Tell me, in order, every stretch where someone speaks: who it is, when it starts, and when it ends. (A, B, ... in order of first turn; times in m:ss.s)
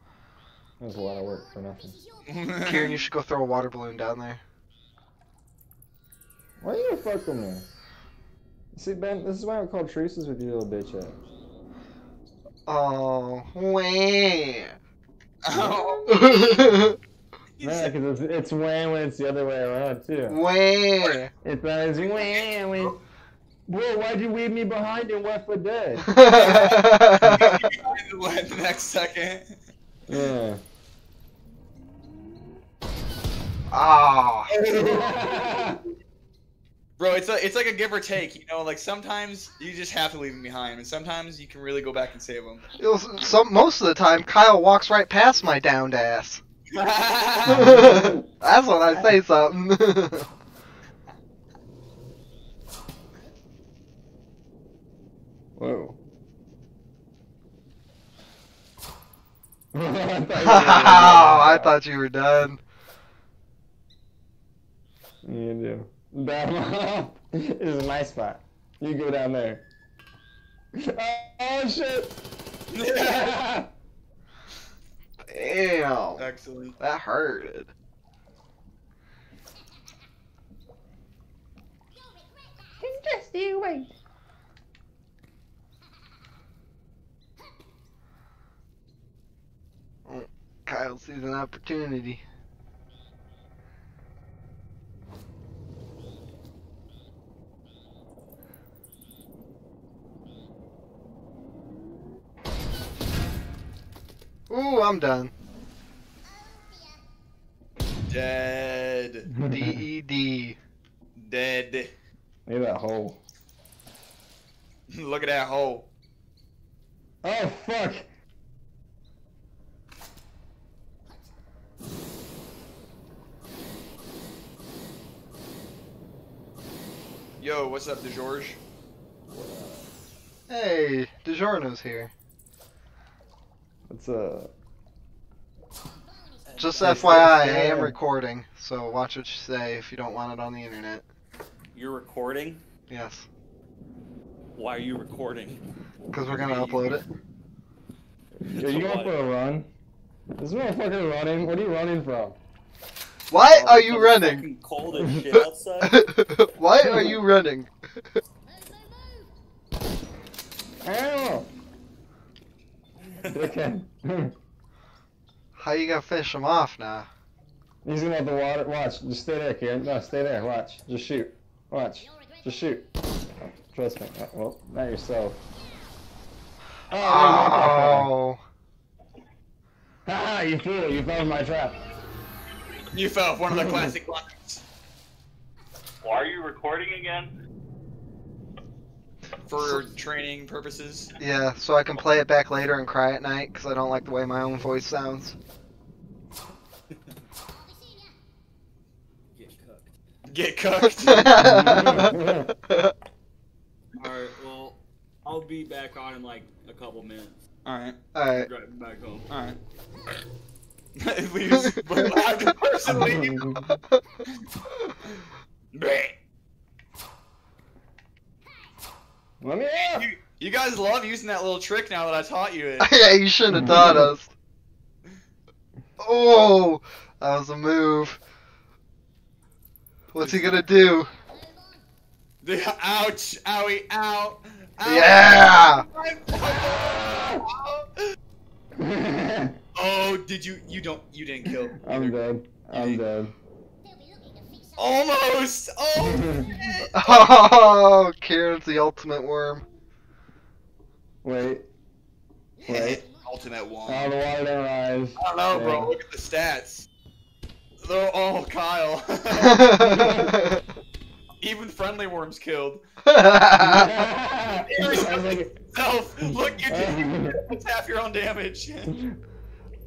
0:00.8-0:02.0 A
0:02.2-0:03.1 B
0:02.6-0:04.4 C
0:06.6-0:07.7 A
0:08.7-0:11.2 A
0:12.6-0:14.7 C
0:15.4-0:16.7 B
0:15.5-0:16.0 A
0:16.0-0:17.0 C
0:17.6-0:17.9 B
0:17.6-0:20.4 A
0:20.3-0:21.3 C
0:21.4-0:23.0 A
0:22.1-0:22.4 B
0:23.7-0:26.1 A
0:26.0-0:27.6 C
0:26.3-0:29.4 B
0:30.1-0:30.6 A
0:33.7-0:34.5 C
0:34.5-0:35.4 B
0:34.7-0:35.8 A
0:37.0-0:42.7 B
0:42.8-0:46.4 C
0:46.7-0:47.8 B
0:47.5-0:50.2 C
0:47.6-0:48.2 A
0:55.6-0:56.0 A
0:59.7-1:01.7 A
1:00.4-1:02.6 C
1:05.2-1:09.6 A
1:10.8-1:12.2 A
1:12.7-1:13.3 B
1:13.0-1:13.7 A
1:15.2-1:16.3 C
1:16.2-1:16.8 B
1:16.8-1:17.7 C
1:22.8-1:23.9 A
1:30.0-1:32.2 C
1:44.5-1:45.3 C
1:48.1-1:49.3 B
1:49.3-1:49.8 A
1:49.5-1:50.6 C
1:51.2-1:51.9 B
1:52.5-1:53.2 A
1:54.9-1:55.9 B
1:57.2-1:58.1 A
2:07.4-2:08.6 B
2:09.3-2:09.9 A
2:10.5-2:12.1 C
2:13.9-2:14.5 A
2:16.5-2:16.9 D
2:16.6-2:21.0 C
2:16.8-2:18.0 A
2:21.7-2:22.6 D
2:22.9-2:23.3 C
2:24.6-2:25.6 D
2:26.1-2:27.0 C
2:26.3-2:26.9 D
2:28.4-2:29.7 A
2:28.4-2:29.2 D
2:30.4-2:32.4 A
2:33.3-2:34.5 C
2:33.3-2:36.0 D
2:35.3-2:37.7 C
2:40.8-2:41.5 A
2:43.3-2:44.3 A
2:45.6-2:47.1 C
2:47.8-2:52.9 A
2:53.5-2:55.4 A
2:56.9-2:58.1 A
2:56.9-2:58.4 C
3:00.0-3:01.9 A
3:02.9-3:04.6 B
3:03.5-3:03.9 A
3:06.0-3:07.3 D
3:09.5-3:11.1 B
3:09.6-3:09.9 C
3:11.2-3:15.4 C
3:19.3-3:19.9 D
3:20.3-3:21.5 B
3:20.8-3:22.9 C
3:21.4-3:22.5 A
3:24.0-3:27.4 D
3:27.6-3:28.0 B
3:28.1-3:28.5 C
3:28.3-3:29.3 D
3:29.3-3:29.6 B
3:31.0-3:33.6 B
3:32.9-3:33.6 A
3:35.7-3:36.1 B
3:39.4-3:40.1 A
3:39.7-3:43.0 B
3:42.8-3:44.3 C
3:43.5-3:44.1 A
3:46.0-3:48.2 C
3:50.1-3:51.2 C
3:50.2-3:50.8 B
3:52.4-3:58.0 B
3:54.8-3:55.8 C
3:58.8-3:59.6 A
3:59.7-4:02.2 B
4:01.8-4:03.3 A
4:02.7-4:03.0 B
4:04.8-4:07.7 B
4:06.0-4:06.5 A
4:06.9-4:09.6 C
4:11.2-4:11.6 A
4:12.6-4:13.0 A
4:12.7-4:14.1 B
4:13.8-4:15.9 A
4:15.2-4:16.9 B
4:17.8-4:20.0 B
4:19.3-4:20.6 C
4:19.8-4:20.3 A
4:21.4-4:22.8 B
4:23.0-4:24.0 C
4:23.6-4:25.6 A
4:24.6-4:28.9 B
4:26.2-4:27.4 A
4:28.9-4:29.2 A